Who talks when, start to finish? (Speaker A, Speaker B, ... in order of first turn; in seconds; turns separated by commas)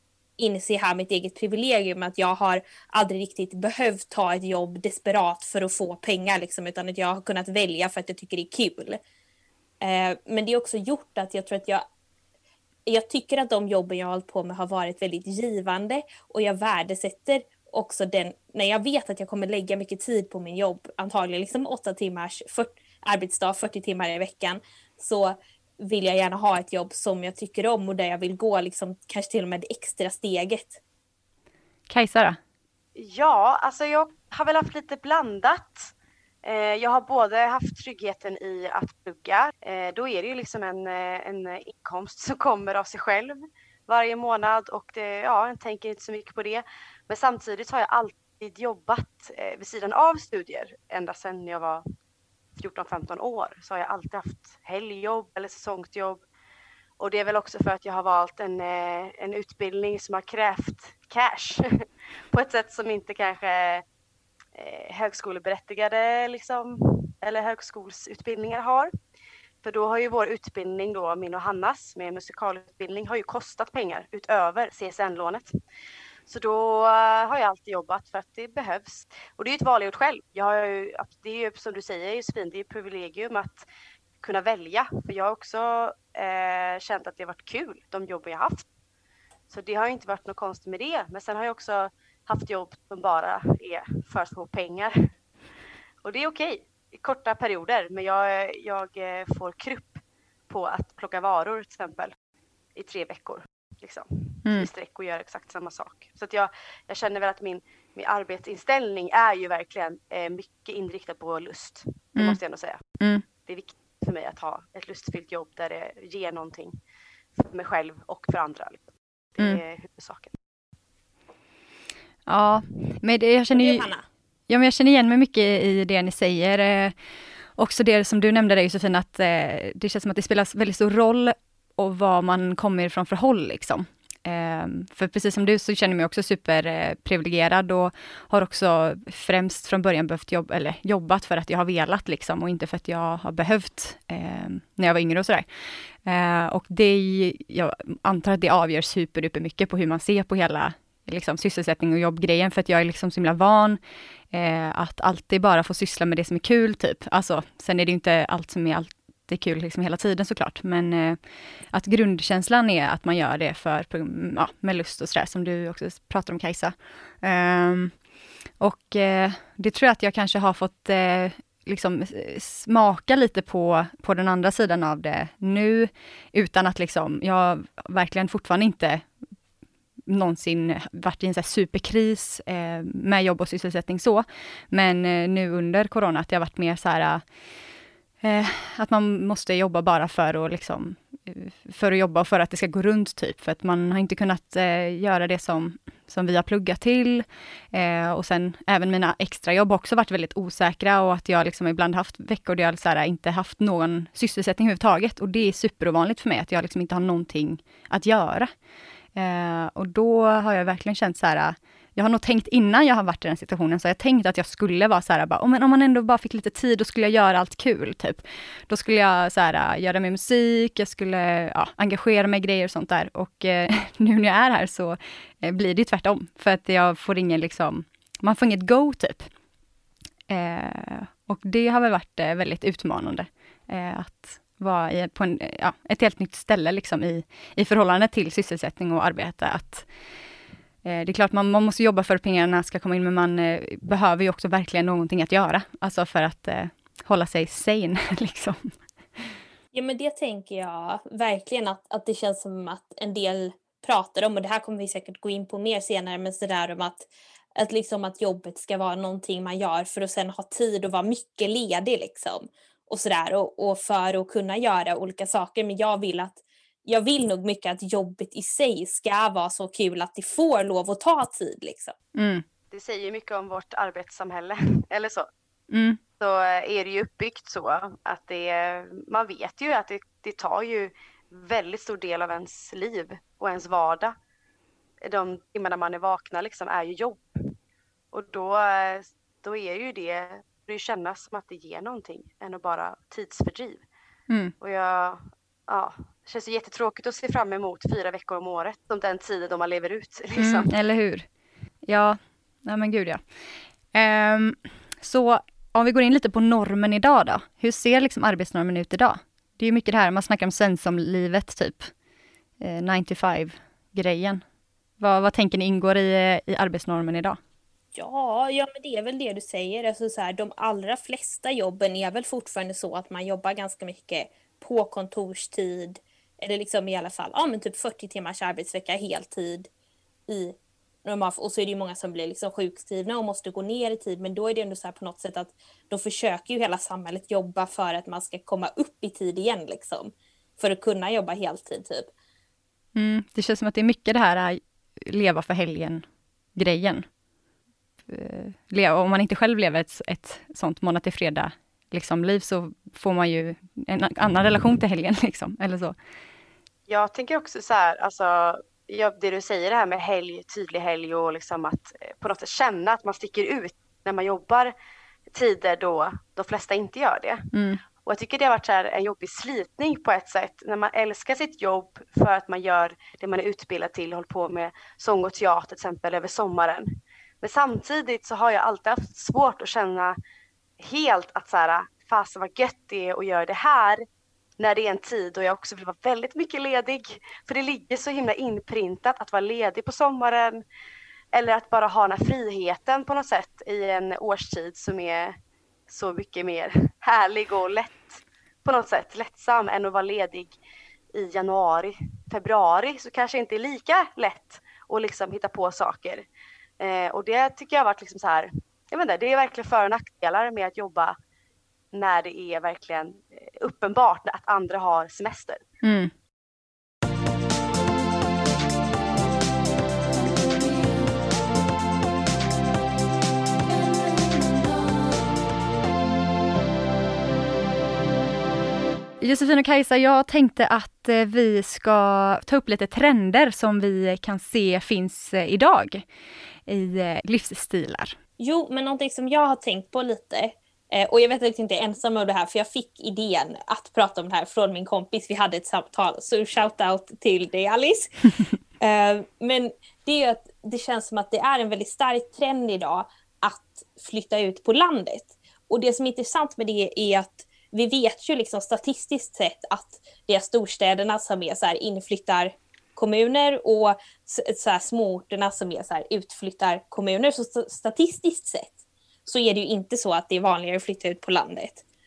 Speaker A: 0.4-9.0, Speaker A: 9.8-11.8, Speaker A: 12.8-30.8, Speaker B: 31.9-32.4, Speaker C: 32.9-35.9, Speaker C: 36.4-51.8, Speaker C: 52.6-56.2, Speaker C: 57.0-63.8, Speaker C: 64.5-68.9, Speaker C: 69.6-75.5, Speaker C: 76.3-83.7, Speaker C: 84.2-88.6, Speaker C: 89.5-95.1, Speaker C: 96.0-102.1, Speaker C: 102.7-112.8, Speaker B: 113.0-113.2, Speaker C: 113.4-116.8, Speaker C: 117.3-120.3, Speaker B: 122.2-123.9, Speaker A: 123.5-124.0, Speaker B: 124.5-126.9, Speaker B: 127.5-145.4, Speaker B: 146.0-153.8, Speaker B: 154.3-161.2, Speaker B: 161.7-167.9, Speaker B: 168.6-179.1, Speaker B: 180.1-187.2, Speaker B: 188.2-208.5, Speaker B: 209.1-229.3, Speaker B: 230.3-239.9, Speaker B: 240.8-249.3, Speaker A: 249.7-271.9, Speaker B: 272.1-272.4, Speaker C: 272.7-275.3, Speaker B: 275.7-276.0, Speaker C: 276.2-284.1, Speaker C: 285.0-287.5, Speaker C: 288.1-293.9, Speaker B: 294.3-294.5, Speaker C: 294.6-300.7, Speaker B: 300.4-301.3, Speaker B: 301.9-303.2, Speaker B: 303.9-311.9, Speaker B: 312.6-314.4, Speaker B: 315.0-317.4, Speaker A: 317.9-329.7, Speaker A: 330.3-342.1, Speaker B: 342.9-346.0, Speaker B: 346.6-347.0, Speaker B: 348.1-355.9, Speaker C: 356.9-364.7, Speaker C: 365.3-367.5, Speaker B: 367.5-367.8, Speaker C: 368.0-376.9, Speaker C: 377.4-380.2, Speaker C: 380.8-384.0, Speaker C: 384.6-390.6, Speaker C: 391.3-395.4, Speaker C: 395.9-400.6, Speaker C: 401.1-406.2, Speaker C: 406.8-411.1, Speaker C: 411.9-415.6, Speaker B: 415.8-416.1, Speaker B: 429.2-436.0, Speaker B: 436.6-438.1, Speaker A: 438.4-471.8